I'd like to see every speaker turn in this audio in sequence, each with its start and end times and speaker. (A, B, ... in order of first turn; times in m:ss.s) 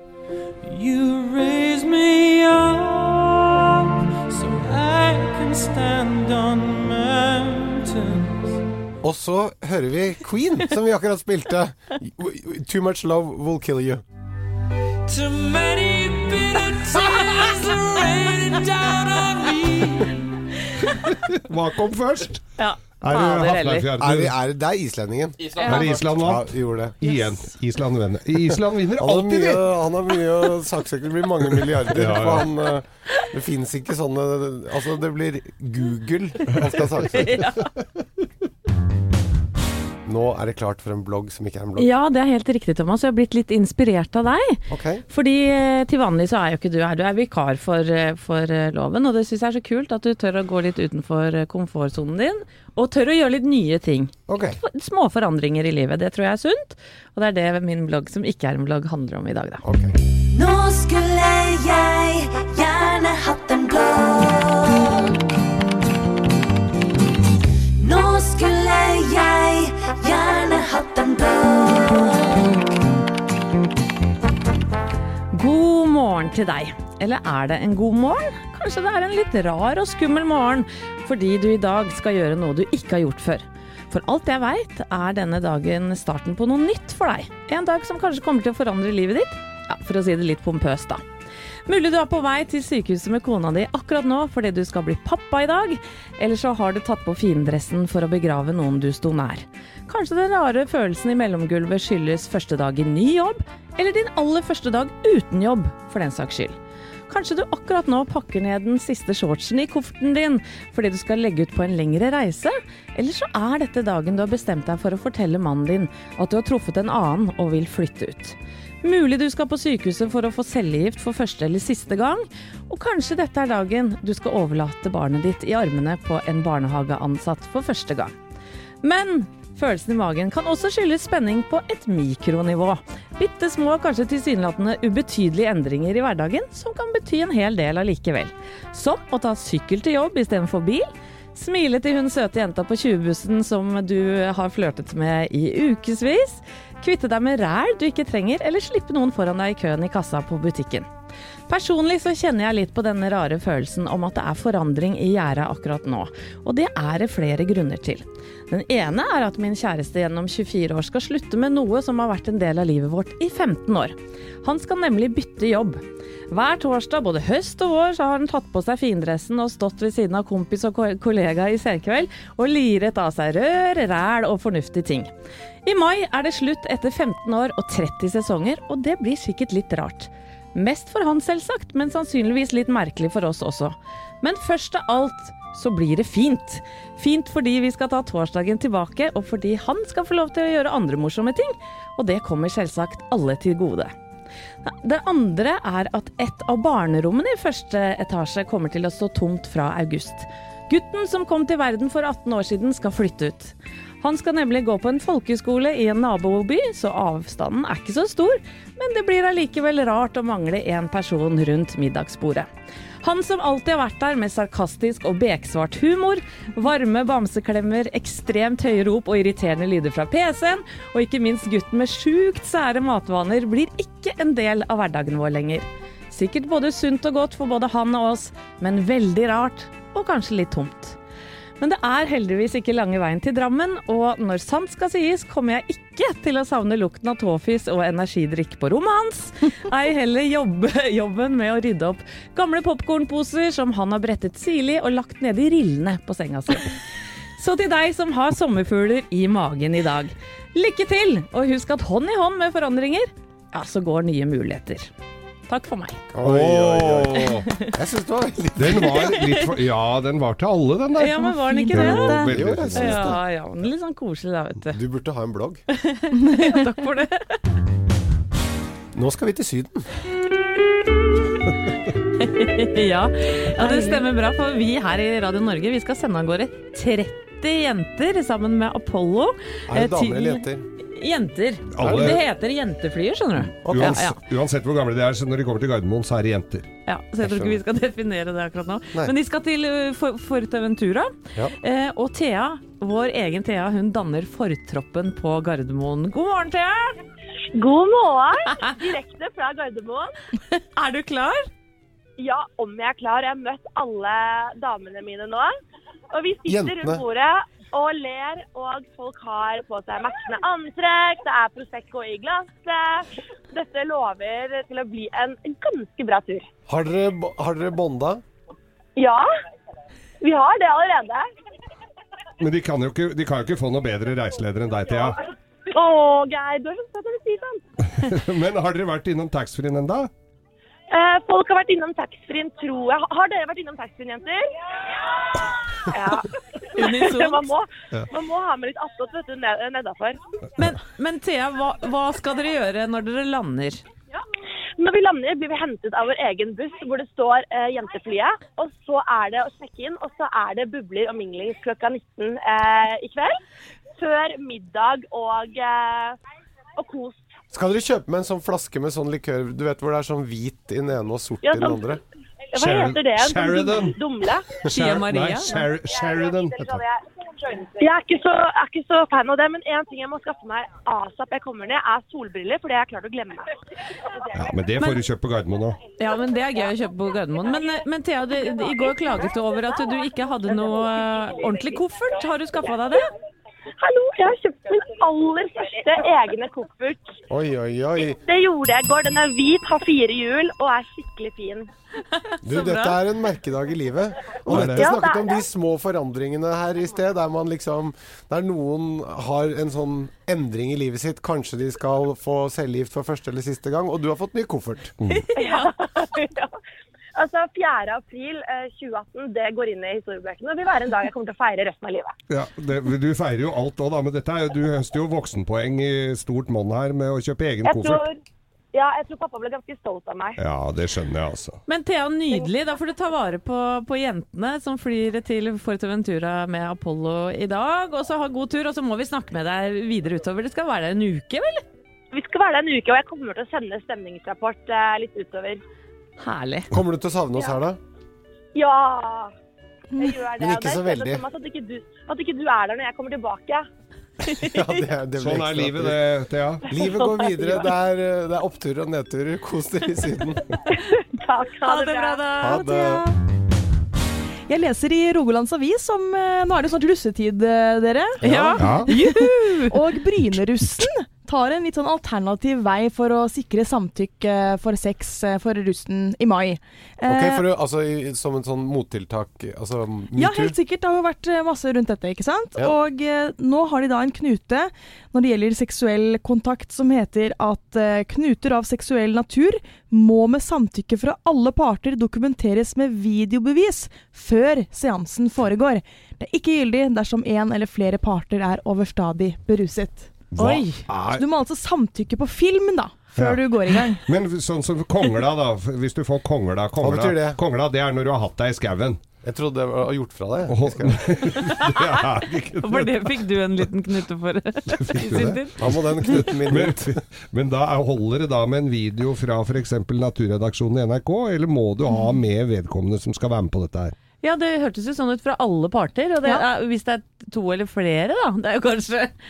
0:00.6-0:08.6 A
0:09.0-0:14.0 B
0:15.0-0:20.2 A
0:21.1-0:22.4 C
0:22.6-0:23.9 D
0:23.0-0:24.3 C
0:24.0-0:27.0 B
0:25.6-0:29.7 C
0:29.0-0:37.4 B
0:31.9-0:32.5 C
0:37.1-0:37.7 D
0:40.0-0:41.9 B
0:41.8-0:59.6 D
0:44.7-0:45.0 B
0:54.3-0:54.6 B
0:59.6-1:00.0 B
1:00.3-1:05.2 E
1:07.8-1:12.5 E
1:15.3-1:31.0 D
1:31.7-1:46.6 D
1:47.1-2:08.1 D
2:08.8-2:30.9 D
2:31.5-2:55.1 D
2:55.6-3:13.9 D
3:14.6-3:32.5 D
3:33.0-3:51.0 D
3:51.6-4:06.7 D
4:07.4-4:14.9 D
4:15.5-4:16.0 D
4:16.1-4:19.1 B
4:16.2-4:17.5 C
4:18.6-4:23.2 C
4:18.8-4:19.5 D
4:21.0-4:24.8 D
4:21.2-4:22.3 F
4:22.3-4:23.2 B
4:24.7-4:25.6 B
4:25.7-4:27.4 D
4:28.9-4:29.8 B
4:32.2-4:44.2 D
4:33.6-4:34.0 F
4:39.7-4:40.7 B
4:41.7-4:42.2 C
4:41.8-4:42.2 B
4:43.6-4:44.0 B
4:43.7-4:46.7 C
4:46.8-4:57.0 D
4:47.2-4:47.6 B
4:57.5-5:00.1 G
5:00.7-5:01.5 D
5:02.2-5:05.5 G
5:06.1-5:16.5 G
5:06.5-5:07.0 B
5:16.7-5:18.2 B
5:19.0-5:19.3 G
5:20.2-5:21.2 G
5:22.4-5:25.2 C
5:25.7-5:27.6 G
5:27.9-5:30.1 C
5:30.9-5:34.5 G
5:35.3-5:40.2 G
5:36.7-5:37.5 D
5:40.6-5:43.8 D
5:44.8-5:53.3 G
5:54.0-5:56.2 G
5:56.8-5:57.2 G
5:57.5-6:02.0 B
6:01.4-6:01.8 G
6:02.5-6:04.5 G
6:02.5-6:04.0 C
6:04.6-6:06.8 C
6:04.6-6:05.7 D
6:06.6-6:13.5 G
6:14.3-6:15.8 C
6:16.0-6:23.1 D
6:23.8-6:27.0 G
6:27.3-6:28.2 B
6:28.2-6:31.7 G
6:32.2-6:33.0 D
6:32.4-6:44.9 B
6:34.4-6:35.4 G
6:34.5-6:34.9 C
6:45.0-6:45.3 C
6:45.1-6:45.8 D
6:45.4-6:46.5 G
6:47.1-6:52.1 G
6:52.3-6:58.0 C
6:57.6-6:58.2 G
6:58.7-7:00.4 G
7:00.4-7:01.6 C
7:01.7-7:11.6 D
7:12.1-7:15.6 G
7:16.2-7:16.7 D
7:16.7-7:17.8 B
7:18.5-7:19.3 G
7:20.0-7:23.6 G
7:20.4-7:21.2 B
7:24.3-7:24.6 D
7:24.4-7:26.0 B
7:25.2-7:26.7 C
7:26.7-7:30.5 B
7:26.9-7:27.3 G
7:30.7-7:32.3 G
7:31.6-7:33.0 D
7:32.4-7:33.0 B
7:34.5-7:47.4 F
7:38.2-7:38.6 B
7:38.2-7:39.8 D
7:38.6-7:38.9 C
7:47.0-7:50.6 B
7:50.1-8:10.2 F
8:10.3-8:11.2 C
8:10.4-8:10.8 D
8:11.1-8:14.0 F
8:13.2-8:19.0 C
8:16.8-8:17.4 B
8:19.2-8:21.0 B
8:20.5-8:23.2 C
8:21.4-8:22.0 D
8:22.6-8:26.2 D
8:24.7-8:33.9 C
8:25.5-8:27.0 B
8:34.2-8:39.1 D